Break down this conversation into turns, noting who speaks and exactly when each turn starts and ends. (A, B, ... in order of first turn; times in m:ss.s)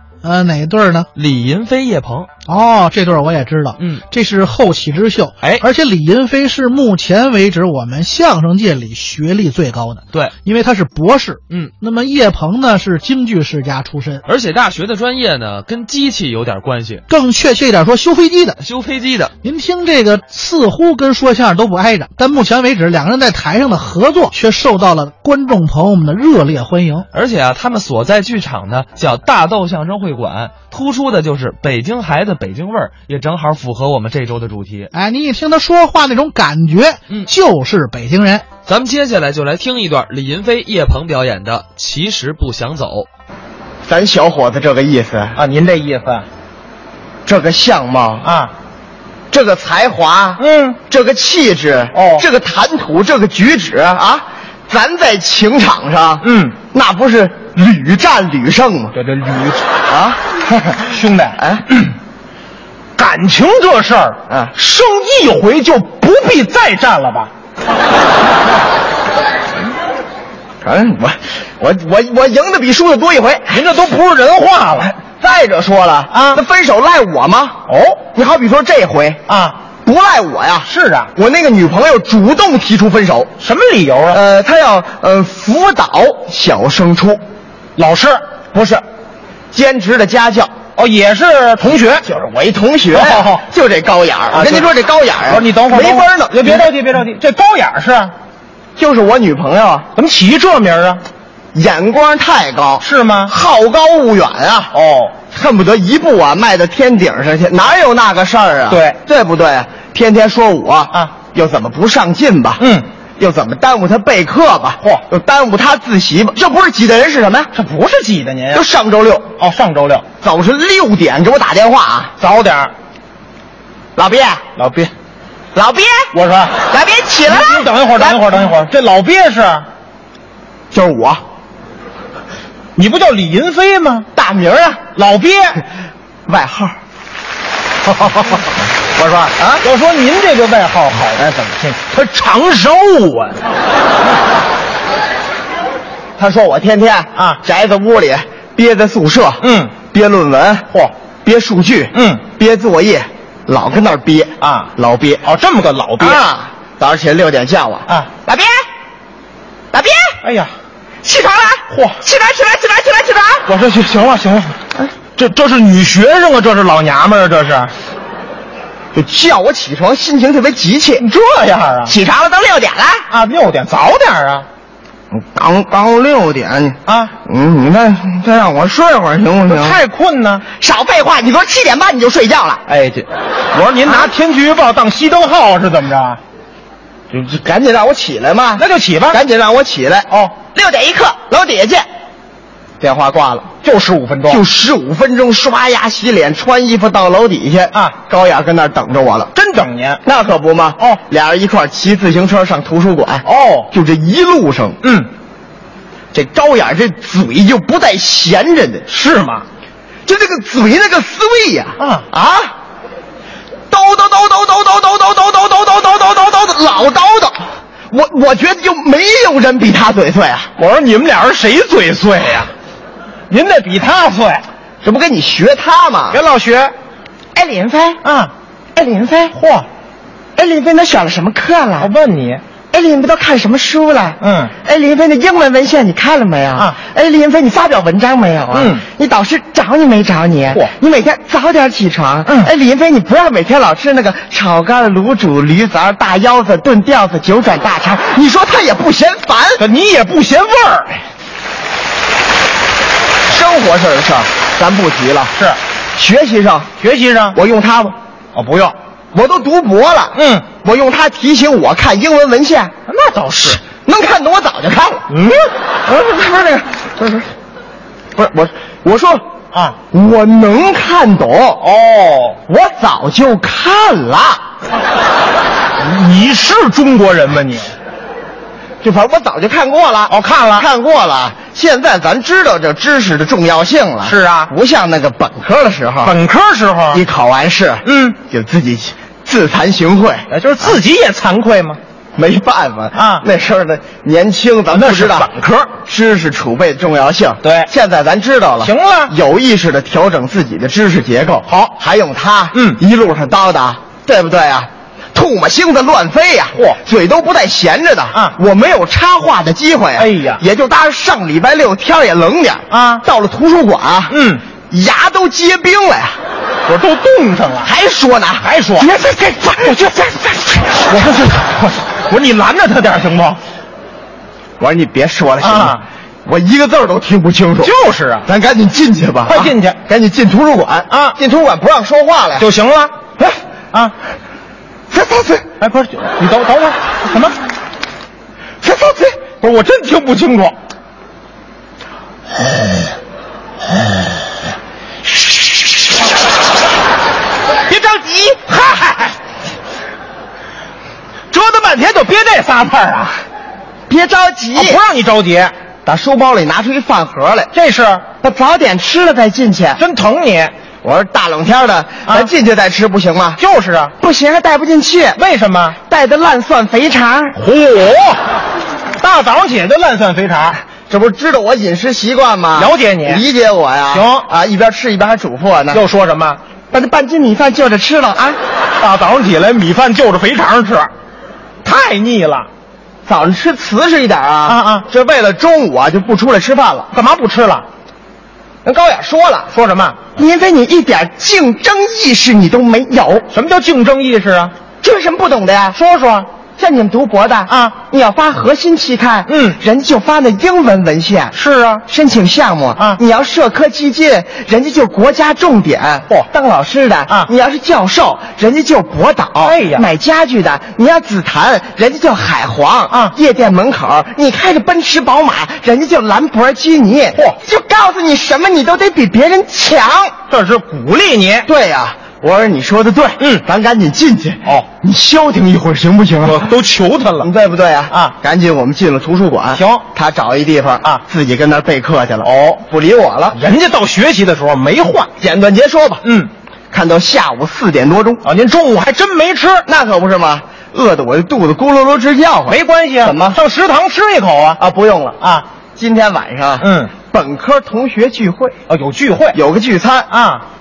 0:00.2-0:01.1 A
0:01.1-0:02.3 B
0:02.5-0:14.2 A
0:03.8-0:04.0 B
0:11.5-0:11.7 B
0:14.2-0:17.1 B
0:17.1-0:18.6 A
0:18.6-0:19.3 B
0:19.4-0:27.0 A
0:27.1-0:34.9 B
0:34.9-0:38.4 A
0:38.6-0:43.1 B
0:43.8-0:45.4 C
0:45.4-0:46.2 D
0:47.2-0:48.3 C
0:48.2-0:48.5 D
0:49.3-0:58.9 C
0:50.4-0:50.8 D
0:51.9-0:52.2 D
0:56.2-0:56.5 D
0:58.9-0:59.6 D
0:59.9-1:00.2 C
1:00.5-1:01.8 D
1:01.4-1:01.6 C
1:03.0-1:07.3 D
1:04.3-1:04.5 C
1:10.6-1:13.6 C
1:13.5-1:14.9 D
1:14.8-1:19.2 C
1:16.1-1:16.4 D
1:17.7-1:18.0 D
1:19.3-1:19.6 D
1:19.8-1:23.3 C
1:20.6-1:21.1 D
1:23.4-1:24.2 D
1:24.1-1:27.2 C
1:27.8-1:28.2 D
1:28.5-1:28.8 C
1:29.5-1:30.5 C
1:30.8-1:32.0 D
1:32.0-1:36.7 C
1:32.9-1:33.4 D
1:34.3-1:34.7 D
1:35.3-1:38.1 D
1:38.8-1:39.9 C
1:40.0-1:41.0 D
1:41.5-1:44.7 C
1:42.8-1:43.3 D
1:44.7-1:45.1 D
1:45.3-1:52.6 C
1:48.7-1:49.0 D
1:52.6-1:52.8 D
1:53.2-1:57.5 C
1:57.5-1:58.6 D
1:58.5-1:59.3 C
1:59.4-2:00.0 D
2:00.2-2:02.1 C
2:02.2-2:02.7 D
2:04.0-2:04.4 C
2:04.6-2:04.9 D
2:05.5-2:08.2 C
2:06.1-2:06.6 D
2:07.3-2:09.6 D
2:10.7-2:11.2 C
2:12.8-2:14.1 D
2:14.1-2:14.9 C
2:14.9-2:15.6 D
2:16.3-2:16.7 C
2:17.8-2:23.4 D
2:19.4-2:19.6 C
2:21.2-2:21.7 C
2:26.2-2:30.7 C
2:29.4-2:29.7 D
2:31.2-2:35.3 C
2:31.9-2:32.2 D
2:34.4-2:34.7 D
2:35.2-2:36.2 D
2:36.0-2:38.6 C
2:39.7-2:40.2 C
2:40.2-2:40.5 D
2:41.0-2:43.6 C
2:41.7-2:42.0 D
2:43.5-2:47.7 D
2:48.9-2:51.1 C
2:51.0-2:51.9 D
2:51.9-2:53.1 C
2:53.1-2:54.4 D
2:55.1-2:59.8 C
2:56.9-2:57.1 D
2:59.5-3:00.4 D
3:00.5-3:02.7 C
3:02.7-3:06.2 D
3:07.1-3:11.8 C
3:08.6-3:09.2 D
3:12.8-3:13.5 C
3:13.6-3:14.4 D
3:14.3-3:19.3 C
3:19.3-3:20.0 D
3:20.0-3:24.8 C
3:23.2-3:23.7 D
3:24.8-3:25.1 D
3:26.1-3:28.9 C
3:28.9-3:29.4 D
3:30.0-3:32.5 C
3:31.8-3:32.0 D
3:33.7-3:40.5 C
3:40.6-3:42.5 D
3:43.3-3:44.4 D
3:44.8-3:46.2 C
3:46.1-3:46.7 D
3:47.3-3:48.0 C
3:48.0-3:48.3 D
3:48.7-3:49.4 C
3:49.3-3:49.7 D
3:50.4-3:51.9 C
3:51.8-3:52.4 D
3:52.7-4:09.6 C
3:54.2-3:54.5 D
3:58.5-3:58.8 D
4:09.6-4:11.0 D
4:13.3-4:15.4 C
4:16.0-4:16.7 C
4:16.8-4:17.4 D
4:17.3-4:18.0 C
4:18.3-4:18.7 D
4:19.1-4:22.7 C
4:20.1-4:20.4 D
4:22.9-4:23.6 D
4:23.6-4:25.1 C
4:25.1-4:25.5 D
4:25.8-4:27.3 C
4:28.1-4:29.2 C
4:29.9-4:31.7 C
4:31.6-4:32.4 D
4:32.5-4:34.4 C
4:35.8-4:37.7 D
4:38.8-4:46.1 C
4:40.1-4:40.7 D
4:44.0-4:44.5 D
4:46.0-4:47.0 D
4:46.9-4:50.8 C
4:47.8-4:48.1 D
4:50.3-4:51.8 D
4:52.2-5:16.2 C
4:52.9-4:53.2 D
4:54.7-4:55.7 D
4:57.4-4:57.7 D
4:58.6-4:59.1 D
5:01.5-5:01.7 D
5:02.5-5:02.8 D
5:10.0-5:10.4 D
5:12.7-5:13.0 D
5:14.1-5:14.4 D
5:16.6-5:17.7 D
5:17.6-5:21.2 C
5:18.4-5:18.9 D
5:20.9-5:23.4 D
5:24.6-5:32.5 C
5:25.4-5:25.8 D
5:27.6-5:28.3 D
5:29.3-5:29.8 D
5:30.9-5:31.2 D
5:32.4-5:32.9 D
5:34.9-5:35.5 C
5:35.6-5:37.4 D
5:38.6-5:39.3 C
5:39.4-5:40.5 D
5:47.7-5:49.2 D
5:51.3-5:53.2 D
5:53.9-5:54.8 C
5:54.5-5:55.5 D
5:55.8-5:57.5 C
5:57.5-5:58.0 D
5:58.2-5:59.8 C
5:59.8-6:00.5 D
6:00.8-6:03.4 C
6:02.1-6:02.3 D
6:03.4-6:03.9 D
6:04.0-6:05.2 C
6:05.2-6:05.8 D
6:05.8-6:07.4 C
6:07.4-6:08.2 D
6:09.0-6:10.6 D
6:10.7-6:15.8 C
6:12.6-6:13.2 D
6:13.9-6:14.3 D
6:15.7-6:16.4 D
6:16.7-6:18.4 C
6:18.8-6:20.9 D
6:21.6-6:22.5 D
6:23.0-6:26.9 C
6:24.5-6:24.8 D
6:26.9-6:27.6 D
6:28.6-6:29.5 C
6:29.5-6:30.0 D
6:30.1-6:33.3 C
6:33.3-6:34.5 D
6:34.8-6:35.8 C
6:35.7-6:36.3 D
6:36.6-6:41.3 C
6:39.3-6:39.6 D
6:41.3-6:41.8 D
6:41.9-7:00.2 C
6:49.4-6:49.8 D
7:00.3-7:01.5 D
7:01.4-7:06.5 C
7:06.2-7:07.3 D
7:07.2-7:13.4 C
7:09.5-7:09.8 D
7:12.2-7:12.6 D
7:13.3-7:15.1 D
7:15.2-7:16.0 C
7:16.0-7:16.3 D
7:16.7-7:18.2 C
7:18.2-7:19.6 D
7:19.6-7:23.4 C
7:22.5-7:24.6 D
7:24.6-7:25.2 C
7:25.8-7:28.6 C
7:26.6-7:26.9 D
7:28.7-7:29.4 D
7:29.3-7:30.1 C
7:30.1-7:30.4 D